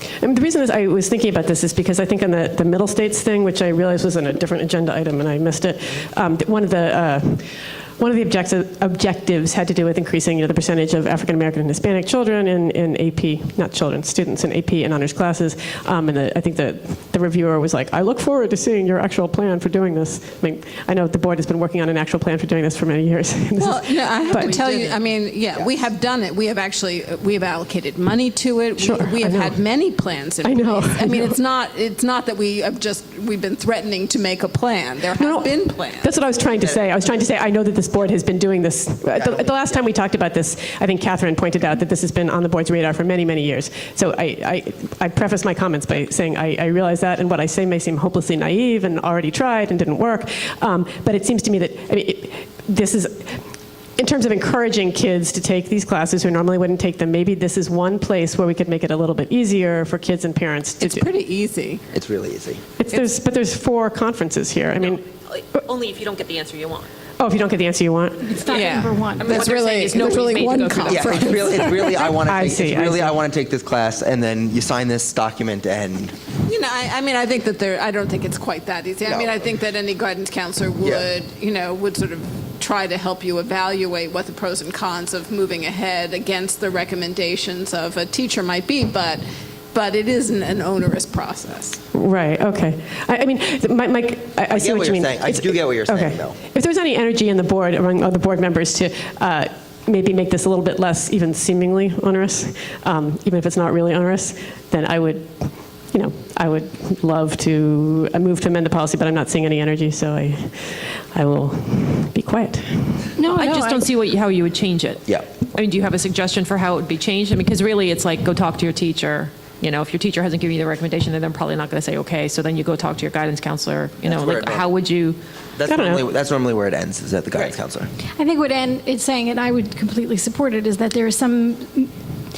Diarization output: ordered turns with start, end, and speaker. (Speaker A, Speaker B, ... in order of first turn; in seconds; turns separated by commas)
Speaker A: 0.2-24.8, Speaker B: 23.6-36.1, Speaker A: 28.8-29.6, Speaker A: 30.4-31.4, Speaker A: 35.2-53.4, Speaker C: 39.1-39.5, Speaker A: 54.0-61.1, Speaker B: 60.8-61.8, Speaker C: 61.9-62.6, Speaker A: 62.8-65.1, Speaker D: 65.3-66.9, Speaker A: 67.2-68.3, Speaker E: 68.3-70.4, Speaker B: 68.6-72.1, Speaker D: 69.1-71.9, Speaker C: 70.8-76.2, Speaker A: 72.0-73.2, Speaker B: 76.5-91.8, Speaker C: 79.0-79.4, Speaker C: 80.8-81.1, Speaker A: 91.9-113.1, Speaker C: 94.5-96.4, Speaker E: 113.2-113.9, Speaker D: 113.3-125.2, Speaker C: 124.0-124.7, Speaker C: 125.6-127.9, Speaker A: 125.7-126.0, Speaker E: 128.2-131.9